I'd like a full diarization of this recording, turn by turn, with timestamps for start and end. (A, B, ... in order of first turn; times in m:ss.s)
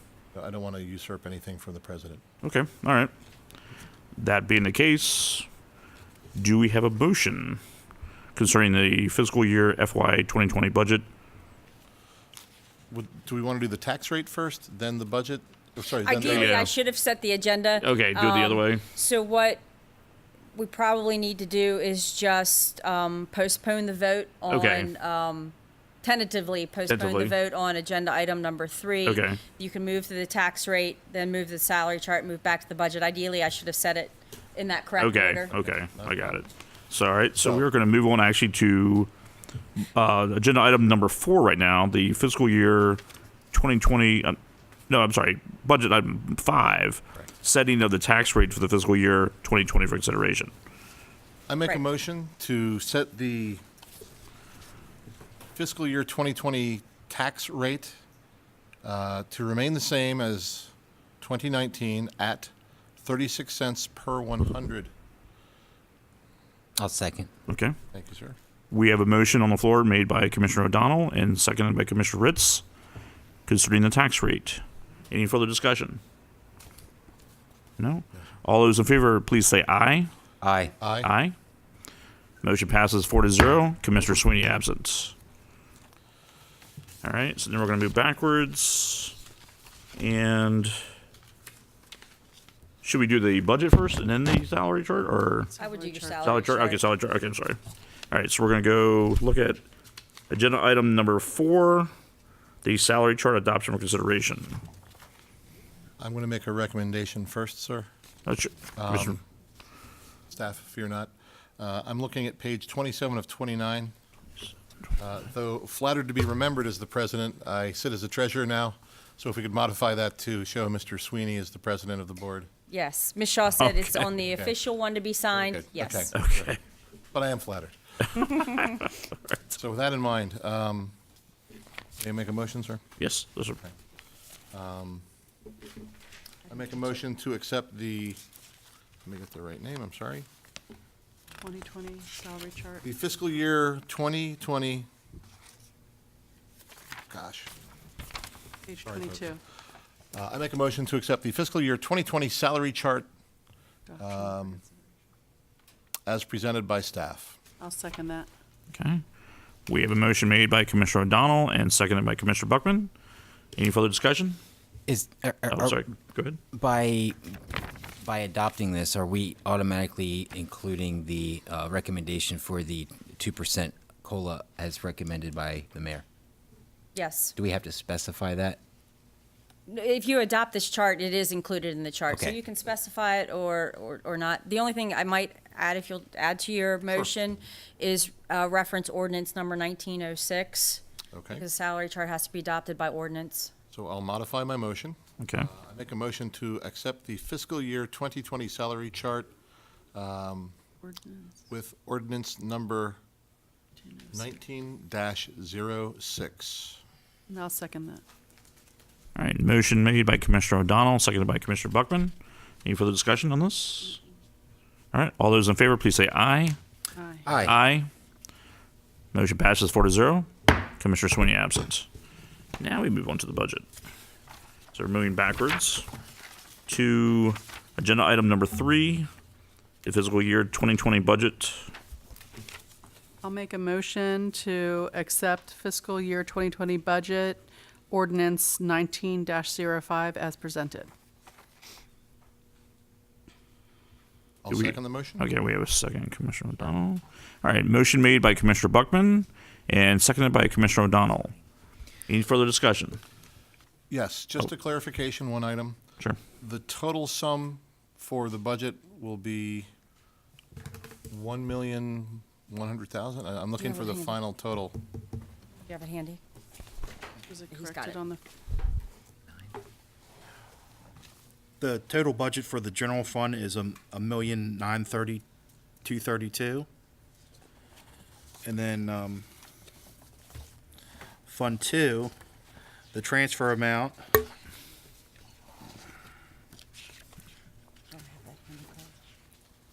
0:00.3-0:02.2 A
0:02.4-0:03.1 B
0:04.2-0:05.4 B
0:06.3-0:07.6 B
0:08.3-0:11.0 B
0:12.9-0:16.6 A
0:16.0-0:19.6 C
0:16.2-0:16.7 B
0:17.8-0:18.8 B
0:20.5-0:35.5 C
0:24.5-0:24.9 B
0:26.9-0:27.3 B
0:29.0-0:29.4 B
0:35.0-0:39.1 B
0:35.6-0:36.4 A
0:37.4-0:37.6 A
0:39.8-0:43.0 B
0:43.5-0:44.4 B
0:44.9-0:50.5 B
0:51.5-0:53.6 A
0:55.6-0:58.0 A
0:58.8-1:04.9 A
1:06.8-1:07.3 D
1:07.5-1:07.7 B
1:07.9-1:08.4 A
1:08.7-1:12.6 B
1:13.5-1:16.0 B
1:17.8-1:20.1 B
1:20.4-1:20.7 D
1:20.8-1:21.1 A
1:21.0-1:21.3 B
1:22.4-1:25.1 B
1:27.0-1:29.2 B
1:30.0-1:30.8 B
1:32.8-1:35.5 B
1:35.5-1:36.4 E
1:35.6-1:36.8 C
1:36.2-1:37.6 B
1:38.1-1:39.6 B
1:40.3-1:41.9 B
1:42.6-1:44.6 B
1:46.0-1:47.9 A
1:48.2-1:49.2 B
1:48.8-1:49.2 A
1:50.3-1:53.9 A
1:55.0-2:02.5 A
2:02.7-2:06.1 C
2:03.6-2:04.1 B
2:05.4-2:06.5 A
2:06.1-2:06.6 B
2:07.1-2:08.2 A
2:08.2-2:08.6 B
2:09.5-2:10.9 A
2:12.0-2:12.8 A
2:13.0-2:13.6 B
2:14.5-2:15.0 A
2:16.5-2:18.2 A
2:19.0-2:20.2 A
2:21.4-2:22.8 E
2:22.8-2:24.9 A
2:27.1-2:27.5 A
2:28.7-2:29.4 E
2:28.8-2:29.3 A
2:30.1-2:33.1 A
2:33.9-2:34.7 E
2:34.0-2:34.6 A
2:36.0-2:37.4 A
2:37.6-2:38.3 E
2:38.7-2:39.0 B
2:39.7-2:42.9 B
2:43.6-2:44.4 B
2:44.9-2:45.8 D
2:45.5-2:46.4 B
2:46.5-2:56.0 D
2:56.9-2:57.3 C
2:57.4-2:58.6 D
2:59.7-3:10.8 C
3:02.1-3:02.4 D
3:11.1-3:11.4 A
3:11.3-3:13.5 C
3:13.7-3:19.3 A
3:15.2-3:15.5 B
3:19.9-3:20.6 A
3:20.8-3:21.3 E
3:21.5-3:23.0 A
3:23.9-3:24.3 E
3:24.1-3:26.8 A
3:27.3-3:28.0 E
3:29.1-3:34.0 B
3:34.9-3:36.6 B
3:37.0-3:37.3 E
3:37.2-3:37.5 D
3:37.4-3:37.9 B
3:39.1-3:41.9 B
3:42.6-3:43.6 B
3:44.7-3:45.9 B
3:46.7-3:49.1 B
3:49.8-3:51.7 B
3:53.2-4:00.9 E
4:04.4-4:05.3 A
4:04.5-4:11.3 B
4:12.1-4:13.0 B
4:13.9-4:15.8 A
4:16.4-4:19.7 A
4:21.1-4:24.8 A
4:23.6-4:24.2 C
4:25.7-4:26.2 C
4:27.3-4:28.2 E
4:27.5-4:28.0 C
4:31.6-4:35.2 F
4:35.8-4:36.7 F
4:38.4-4:39.2 F
4:41.2-4:42.1 F
4:42.9-4:44.2 F
4:47.9-4:48.9 C